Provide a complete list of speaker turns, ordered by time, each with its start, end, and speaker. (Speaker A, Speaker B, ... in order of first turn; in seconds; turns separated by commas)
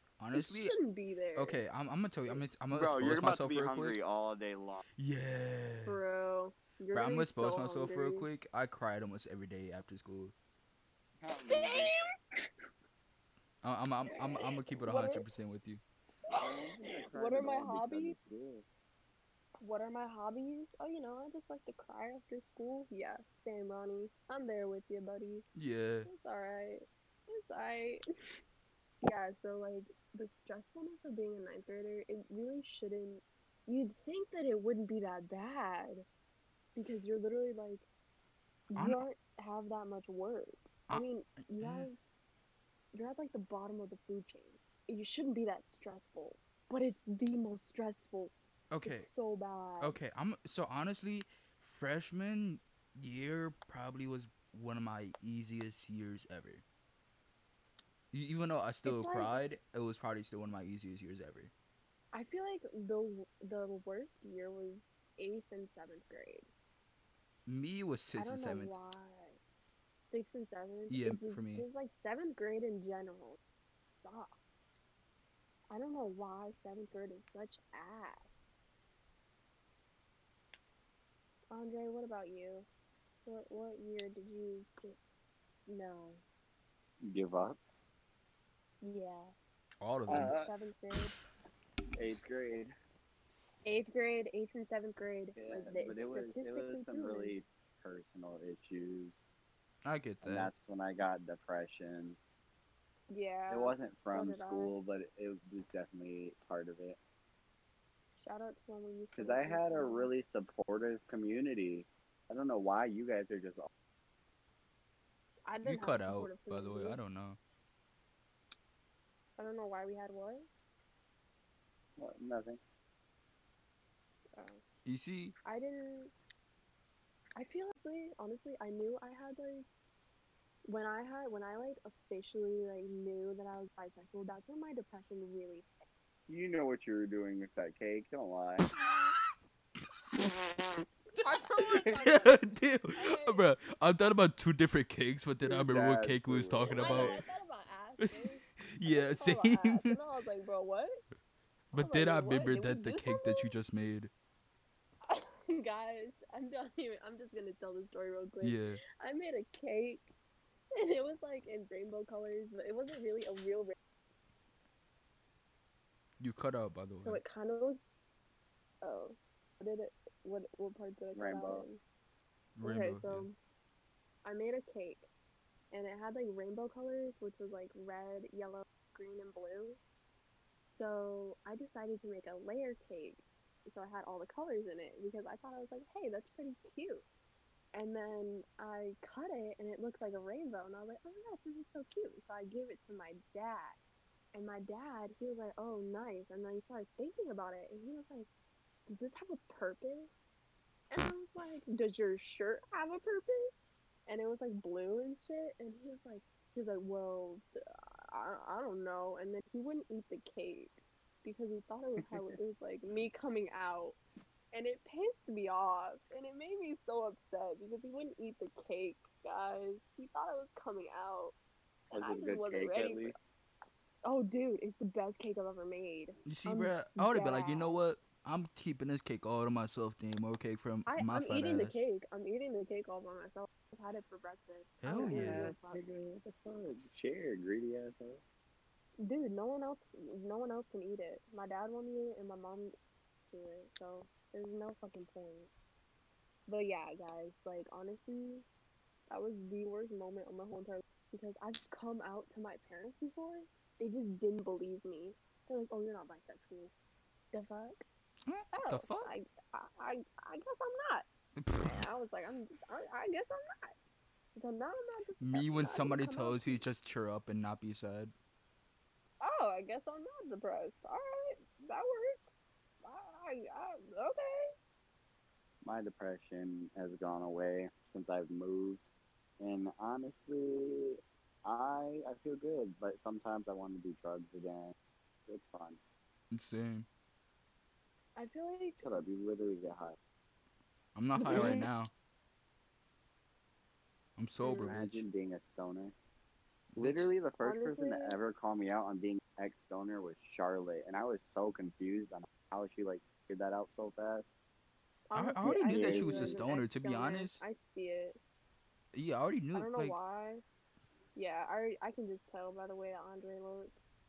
Speaker A: 0.2-0.7, Speaker B: 0.3-1.6, Speaker A: 1.4-4.0, Speaker C: 2.7-4.8, Speaker A: 5.0-6.0, Speaker B: 5.8-8.3, Speaker A: 6.9-10.3, Speaker C: 11.2-11.9, Speaker B: 11.3-12.0, Speaker A: 13.6-15.8, Speaker B: 14.9-15.2, Speaker B: 16.3-18.1, Speaker C: 16.3-18.6, Speaker B: 19.6-25.4, Speaker A: 25.5-26.1, Speaker B: 26.1-28.0, Speaker B: 29.0-36.0, Speaker B: 36.7-37.9, Speaker B: 38.7-42.0, Speaker A: 38.7-39.0, Speaker A: 41.6-41.9, Speaker B: 42.9-50.0, Speaker A: 48.7-49.1, Speaker A: 49.8-56.6, Speaker A: 58.1-61.5, Speaker B: 58.8-59.4, Speaker B: 62.1-66.5, Speaker A: 67.5-68.8, Speaker B: 68.2-69.4, Speaker B: 70.0-73.4, Speaker A: 70.9-71.7, Speaker B: 73.9-74.3, Speaker B: 75.7-78.3, Speaker B: 81.5-82.7, Speaker B: 83.2-85.1, Speaker B: 85.7-86.2, Speaker C: 87.0-87.6, Speaker B: 88.8-89.3, Speaker A: 89.8-90.3, Speaker C: 90.1-90.5, Speaker B: 90.1-91.2, Speaker C: 92.0-92.7, Speaker B: 93.6-97.3, Speaker C: 95.4-99.1, Speaker A: 99.8-100.5, Speaker C: 100.2-102.2, Speaker B: 103.1-104.7, Speaker C: 103.5-107.0, Speaker B: 108.2-110.1, Speaker C: 109.1-113.7, Speaker B: 115.5-117.0, Speaker A: 115.6-117.4, Speaker B: 119.4-120.5, Speaker C: 122.0-122.6, Speaker B: 124.3-124.6, Speaker A: 124.8-125.3, Speaker B: 125.4-126.1, Speaker B: 127.3-129.7, Speaker B: 130.6-135.7, Speaker C: 136.3-138.7, Speaker B: 141.2-142.4, Speaker A: 141.8-147.2, Speaker B: 142.9-143.4, Speaker C: 145.4-147.2, Speaker B: 146.7-151.0, Speaker A: 148.0-149.9, Speaker A: 151.7-154.1, Speaker B: 151.7-153.5, Speaker B: 155.1-160.1, Speaker A: 158.4-158.8, Speaker B: 160.8-163.8, Speaker A: 166.2-167.2, Speaker B: 167.0-167.8, Speaker B: 168.8-171.8, Speaker C: 171.1-171.7, Speaker A: 172.6-173.3, Speaker B: 172.6-173.3, Speaker B: 174.2-175.1, Speaker B: 175.7-179.8, Speaker B: 180.7-187.0, Speaker B: 187.7-193.8, Speaker B: 194.3-198.3, Speaker B: 198.8-200.1, Speaker B: 200.9-203.5, Speaker B: 204.1-207.5, Speaker B: 208.1-214.0, Speaker C: 212.0-212.3, Speaker B: 214.5-221.3, Speaker C: 221.9-223.2, Speaker B: 221.9-223.2, Speaker B: 224.0-227.8, Speaker A: 226.2-231.8, Speaker B: 230.9-235.8, Speaker A: 234.8-235.5, Speaker C: 235.0-238.2, Speaker B: 239.0-242.8, Speaker B: 243.3-245.5, Speaker B: 246.5-248.4, Speaker B: 249.1-256.7, Speaker B: 257.3-257.8, Speaker A: 258.2-259.2, Speaker B: 258.5-261.1, Speaker A: 261.4-261.8, Speaker B: 261.6-263.8, Speaker B: 264.3-266.6, Speaker A: 265.2-268.1, Speaker B: 269.2-274.5, Speaker C: 275.6-278.8, Speaker C: 279.4-284.7, Speaker C: 285.3-285.8, Speaker A: 286.3-286.9, Speaker B: 288.1-288.9, Speaker C: 288.8-290.0, Speaker A: 290.9-291.9, Speaker B: 291.2-291.7, Speaker C: 291.3-291.6, Speaker A: 294.2-295.0, Speaker B: 294.4-294.7, Speaker C: 294.6-295.9, Speaker A: 296.7-297.1, Speaker C: 296.8-304.2, Speaker B: 297.4-298.1, Speaker B: 305.1-308.2, Speaker A: 305.1-307.4, Speaker C: 305.6-306.4, Speaker A: 308.9-310.0, Speaker B: 309.5-310.4, Speaker B: 311.1-313.8